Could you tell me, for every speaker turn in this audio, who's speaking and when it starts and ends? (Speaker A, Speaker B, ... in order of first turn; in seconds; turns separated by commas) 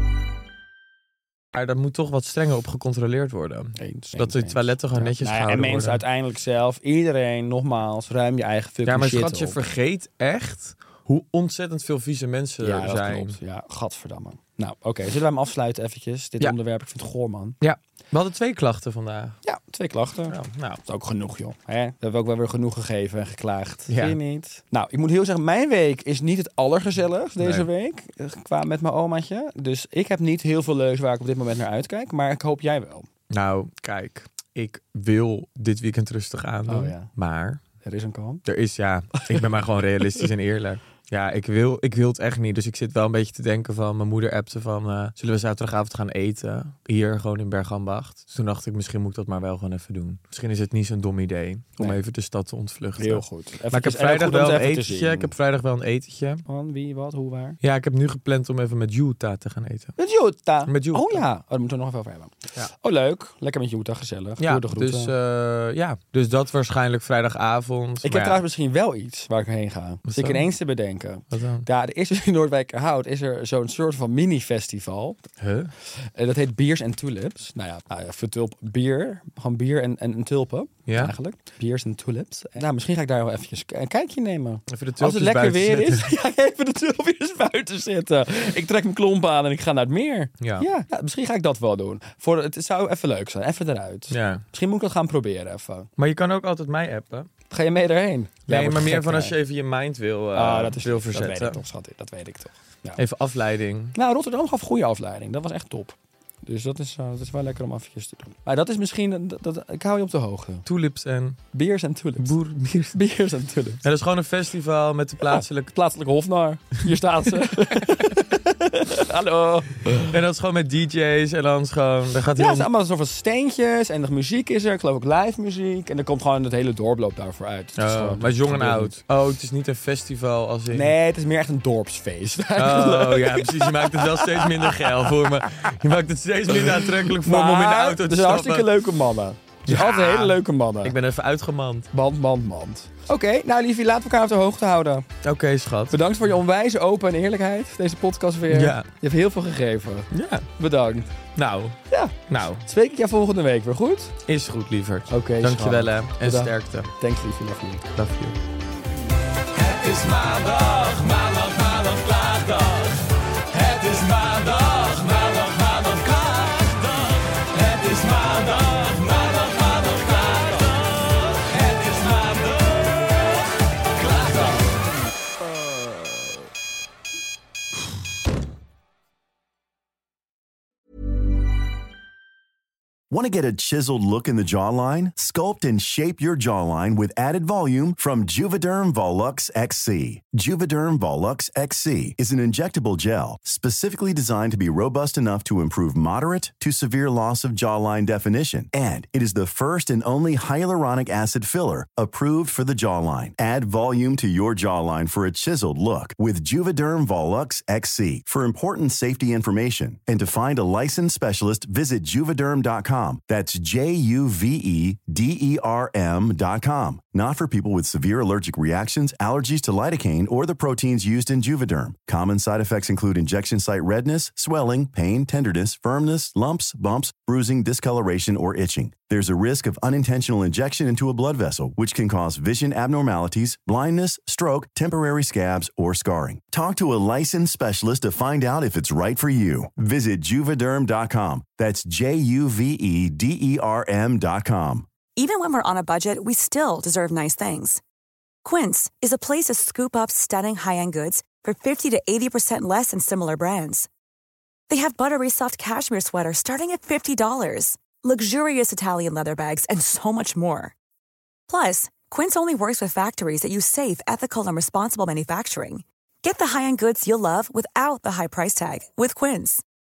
Speaker A: 1.5-6.0, Speaker B: 3.8-9.6, Speaker A: 8.9-13.4, Speaker B: 12.6-17.6, Speaker A: 17.6-19.4, Speaker B: 19.4-33.1, Speaker A: 20.3-20.8, Speaker A: 23.9-24.2, Speaker A: 27.4-27.7, Speaker A: 33.3-37.6, Speaker B: 36.7-37.1, Speaker B: 37.8-38.4, Speaker A: 38.5-56.4, Speaker B: 53.0-55.3, Speaker B: 56.5-57.6, Speaker A: 57.6-60.0, Speaker B: 60.0-65.1, Speaker A: 60.7-61.2, Speaker A: 64.4-68.4, Speaker B: 68.0-75.2, Speaker A: 70.1-70.5, Speaker A: 71.3-71.7, Speaker A: 75.4-75.7, Speaker B: 76.2-95.9, Speaker A: 80.9-81.1, Speaker A: 84.7-86.1, Speaker A: 90.4-90.7, Speaker A: 94.1-94.4, Speaker A: 96.0-97.3, Speaker B: 97.5-99.3, Speaker A: 98.5-101.6, Speaker B: 100.3-103.0, Speaker A: 103.0-104.0, Speaker B: 104.0-110.7, Speaker A: 110.7-111.4, Speaker B: 111.5-112.4, Speaker A: 112.2-113.0, Speaker B: 112.9-113.8, Speaker A: 113.8-115.7, Speaker B: 115.2-120.1, Speaker A: 117.4-118.1, Speaker A: 119.9-122.7, Speaker B: 122.4-129.0, Speaker A: 127.8-130.9, Speaker B: 130.7-135.1, Speaker A: 132.5-138.7, Speaker B: 136.5-140.9, Speaker A: 139.7-141.9, Speaker B: 141.9-145.1, Speaker A: 145.2-146.0, Speaker B: 145.9-151.1, Speaker A: 148.5-148.9, Speaker A: 150.1-150.5, Speaker A: 151.4-151.8, Speaker B: 151.9-154.1, Speaker A: 152.3-152.6, Speaker A: 154.3-156.9, Speaker B: 155.1-157.8, Speaker A: 158.0-158.4, Speaker C: 159.5-174.8, Speaker D: 183.1-244.9, Speaker E: 245.2-247.8, Speaker E: 248.4-253.9, Speaker E: 254.7-260.7, Speaker E: 261.5-269.6